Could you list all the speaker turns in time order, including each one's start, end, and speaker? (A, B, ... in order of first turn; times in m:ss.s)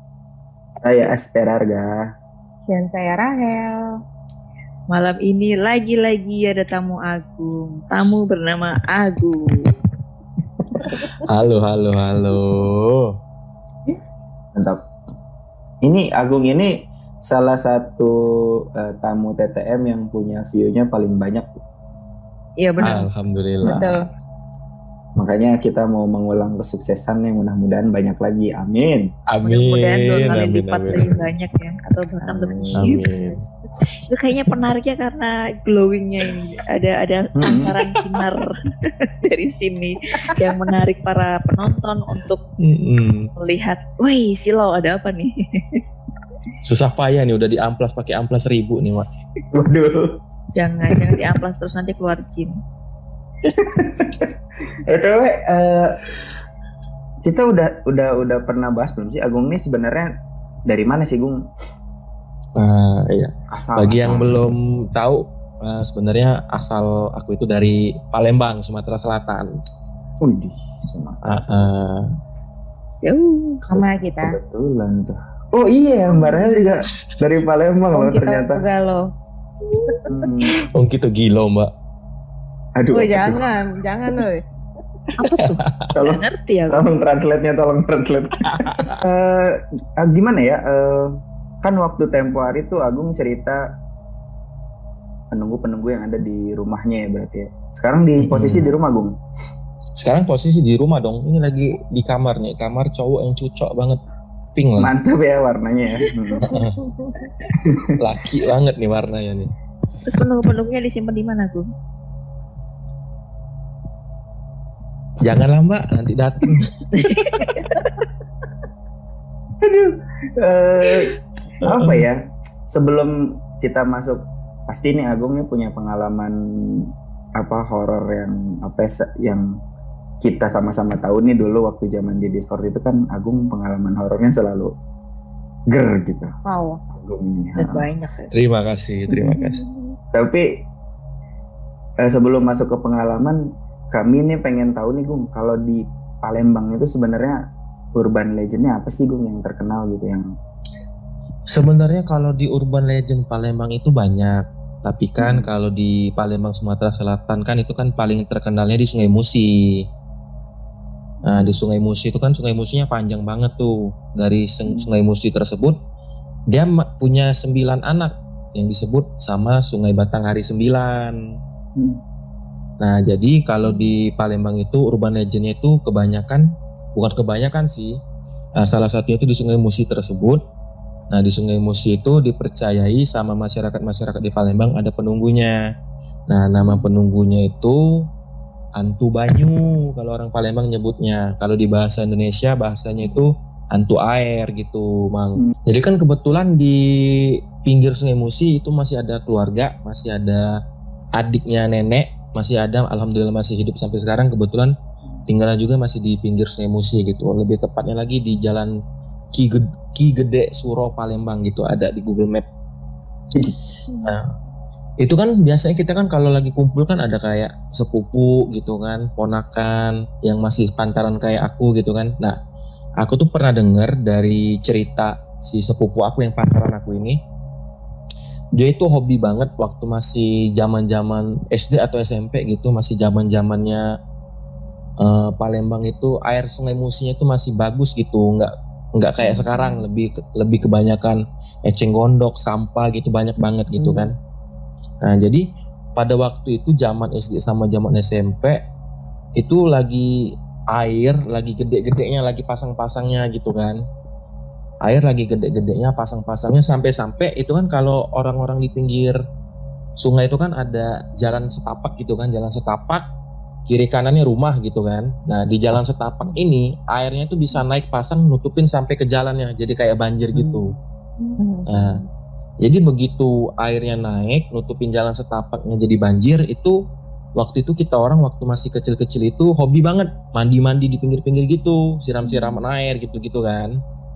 0:00.8-0:02.0 A
0:02.7-0:03.8 B
0:04.9-0:09.4 C
0:11.2-0:13.0 D
0:14.6-0:14.9 A
0:15.8-0:16.7 A
0:17.2-0:18.1 A
0:18.7-0:21.6 A
0:22.6-0:23.1 C
0:22.8-0:23.9 D
0:23.6-0:24.0 B
0:25.2-0:29.1 A
0:29.3-0:31.2 D
0:29.4-0:33.0 C
0:32.3-0:33.0 A
0:32.8-0:33.4 D
0:34.1-0:42.4 C
0:37.4-0:37.7 A
0:42.6-0:43.3 D
0:43.4-0:45.8 C
0:46.6-0:49.1 D
0:49.5-0:50.2 A
0:50.5-0:52.6 C
0:53.4-0:54.3 A
0:54.8-0:56.1 A
0:57.2-1:00.1 A
1:00.7-1:01.4 A
1:02.6-1:09.5 D
1:03.5-1:04.3 A
1:10.2-1:11.7 A
1:11.2-1:12.0 D
1:13.0-1:13.6 C
1:13.7-1:14.4 B
1:13.7-1:18.6 A
1:17.9-1:19.1 B
1:19.6-1:20.0 C
1:20.1-1:20.6 A
1:20.6-1:21.7 D
1:22.8-1:23.5 A
1:22.9-1:24.4 B
1:25.2-1:26.9 C
1:25.4-1:25.9 D
1:25.9-1:33.6 A
1:28.5-1:29.0 D
1:35.3-1:39.2 A
1:38.2-1:38.7 D
1:40.0-1:44.0 D
1:44.6-1:44.9 D
1:44.8-1:46.5 A
1:46.3-1:47.2 B
1:46.4-1:46.7 D
1:47.6-1:48.0 A
1:48.0-1:49.5 D
1:50.0-1:51.7 C
1:55.2-1:57.5 D
1:57.0-1:57.9 C
1:59.6-2:09.4 A
2:01.6-2:02.0 D
2:10.2-2:14.7 A
2:15.7-2:16.4 A
2:16.4-2:16.8 B
2:16.9-2:17.8 A
2:17.6-2:18.3 C
2:18.3-2:19.6 D
2:20.1-2:20.4 A
2:22.0-2:23.4 A
2:23.9-2:27.4 A
2:27.9-2:30.3 A
2:31.5-2:39.8 D
2:35.2-2:35.5 A
2:41.2-2:45.8 D
2:46.5-2:51.2 D
2:52.8-2:58.0 D
2:58.6-3:00.4 D
3:01.1-3:05.6 D
3:06.3-3:08.0 D
3:06.6-3:06.9 A
3:08.8-3:20.5 D
3:21.2-3:24.7 D
3:25.3-3:28.7 D
3:29.3-3:32.4 D
3:34.0-3:34.3 D
3:35.0-3:42.4 D
3:43.0-3:47.2 D
3:48.5-3:53.8 D
3:55.0-4:04.2 D
4:03.8-4:04.1 A
4:05.0-4:05.4 D
4:06.0-4:08.6 D
4:09.4-4:13.8 D
4:14.8-4:19.2 D
4:20.0-4:23.0 D
4:23.7-4:30.7 D
4:30.3-4:30.8 A
4:31.4-4:32.0 B
4:31.7-4:32.0 D
4:32.6-4:36.8 D
4:37.4-4:43.7 D